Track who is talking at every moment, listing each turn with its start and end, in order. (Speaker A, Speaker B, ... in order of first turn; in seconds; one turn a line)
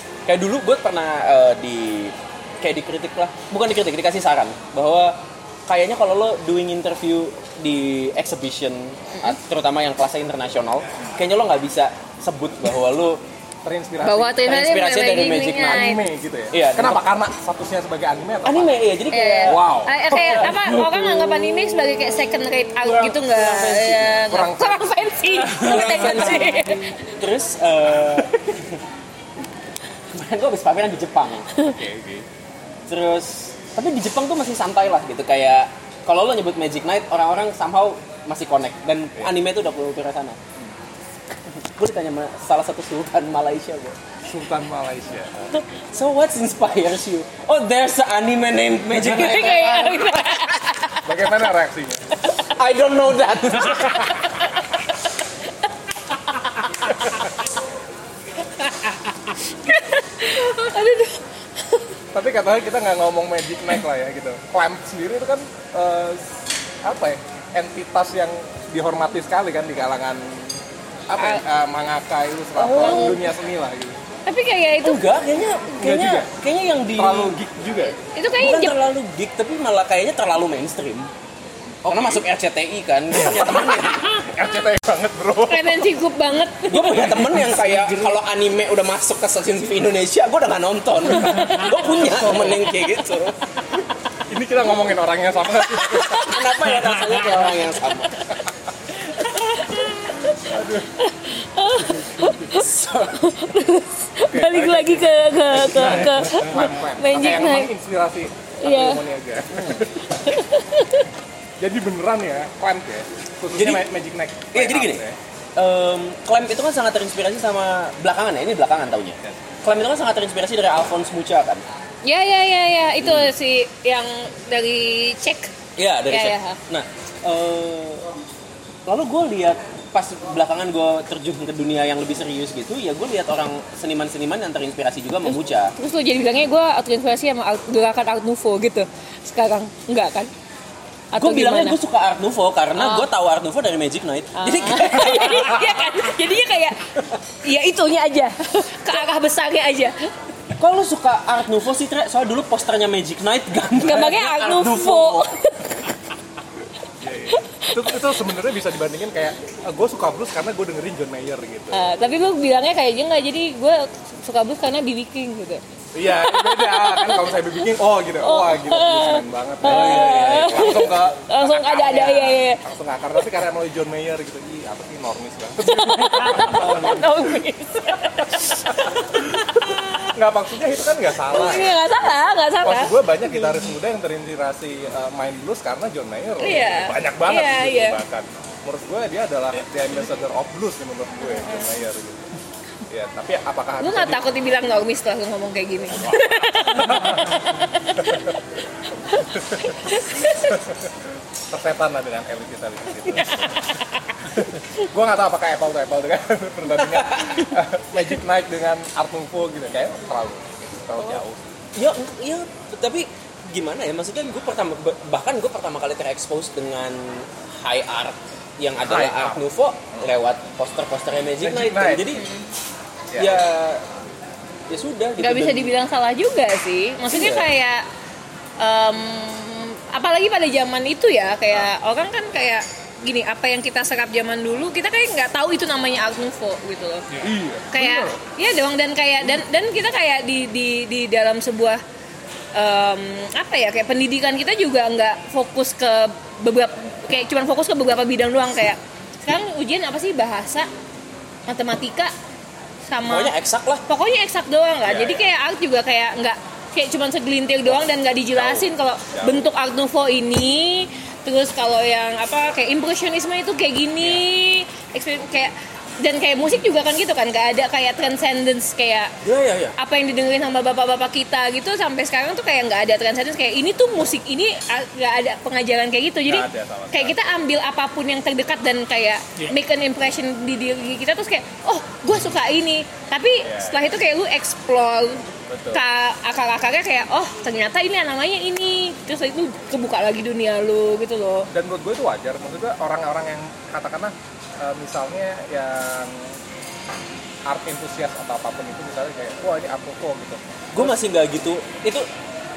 Speaker A: 0.3-13.2
Speaker B: 13.6-14.4
Speaker C: 14.0-16.0
Speaker A: 14.4-15.9
Speaker B: 15.6-18.7
Speaker A: 16.5-17.0
Speaker A: 18.4-21.5
Speaker C: 19.1-27.0
Speaker B: 19.4-20.6
Speaker A: 22.8-24.2
Speaker B: 24.3-26.5
Speaker A: 25.6-28.8
Speaker A: 30.1-31.5
Speaker B: 31.6-32.2
Speaker A: 32.9-40.4
Speaker A: 41.5-44.0
Speaker B: 44.2-45.3
Speaker A: 45.5-50.5
Speaker C: 49.0-51.3
Speaker B: 51.0-52.1
Speaker A: 52.4-54.1
Speaker C: 58.6-58.9
Speaker C: 59.5-61.8
Speaker B: 62.1-66.2
Speaker B: 66.8-70.6
Speaker B: 71.1-74.0
Speaker C: 71.2-71.4
Speaker C: 72.6-73.2
Speaker C: 74.2-75.0
Speaker A: 74.8-77.4
Speaker B: 75.8-76.3
Speaker B: 76.9-78.0
Speaker C: 78.1-78.8
Speaker A: 78.4-81.1
Speaker A: 81.8-84.1
Speaker B: 81.9-82.2
Speaker B: 83.2-85.8
Speaker C: 85.5-87.3
Speaker A: 86.7-93.3
Speaker C: 91.3-91.7
Speaker B: 94.3-96.5
Speaker A: 96.0-98.2
Speaker C: 99.2-100.5
Speaker B: 100.4-100.9
Speaker C: 101.0-107.7
Speaker A: 102.5-103.1
Speaker B: 104.3-110.4
Speaker C: 108.6-109.0
Speaker C: 110.2-111.1
Speaker B: 111.6-115.2
Speaker A: 113.5-113.8
Speaker A: 114.5-115.0
Speaker A: 115.5-121.6
Speaker C: 122.0-125.5
Speaker A: 123.0-123.3
Speaker A: 125.8-128.1
Speaker C: 126.1-126.6
Speaker A: 128.9-135.7
Speaker C: 135.8-140.3
Speaker C: 141.1-141.8
Speaker A: 141.2-145.7
Speaker C: 142.8-143.1
Speaker C: 144.3-150.1
Speaker A: 150.6-155.3
Speaker C: 153.8-155.8
Speaker B: 157.0-161.9
Speaker C: 157.3-157.7
Speaker C: 161.7-167.3
Speaker B: 165.9-177.3
Speaker C: 168.2-172.6
Speaker A: 169.6-170.9
Speaker C: 175.6-178.7
Speaker B: 178.7-179.3
Speaker C: 179.6-180.1
Speaker B: 180.1-181.9
Speaker C: 181.3-183.6
Speaker B: 182.6-192.2
Speaker C: 186.4-188.0
Speaker C: 191.2-191.6
Speaker B: 192.9-194.2
Speaker C: 193.8-198.2
Speaker B: 195.9-197.4
Speaker C: 199.1-200.6
Speaker B: 199.4-199.8
Speaker B: 200.5-200.7
Speaker B: 201.5-203.6
Speaker C: 203.3-203.8
Speaker B: 204.3-211.4
Speaker A: 206.8-207.6
Speaker A: 211.0-211.2
Speaker A: 211.8-222.2
Speaker B: 218.8-219.4
Speaker B: 221.4-222.1
Speaker C: 222.1-222.5
Speaker B: 223.1-223.4
Speaker A: 223.2-223.8
Speaker A: 224.7-225.7
Speaker C: 225.2-227.8
Speaker A: 227.1-227.5
Speaker C: 228.6-237.1
Speaker B: 237.1-238.2
Speaker C: 237.7-241.8
Speaker C: 242.5-250.7
Speaker C: 251.5-252.1
Speaker C: 252.9-253.3
Speaker A: 253.1-253.8
Speaker C: 253.9-269.1
Speaker B: 254.8-255.2
Speaker B: 258.3-259.4
Speaker A: 269.2-269.7
Speaker C: 269.8-291.5
Speaker B: 276.2-277.1
Speaker B: 283.4-283.8
Speaker B: 285.5-285.8
Speaker B: 291.5-296.3
Speaker B: 297.4-300.8
Speaker A: 300.7-302.1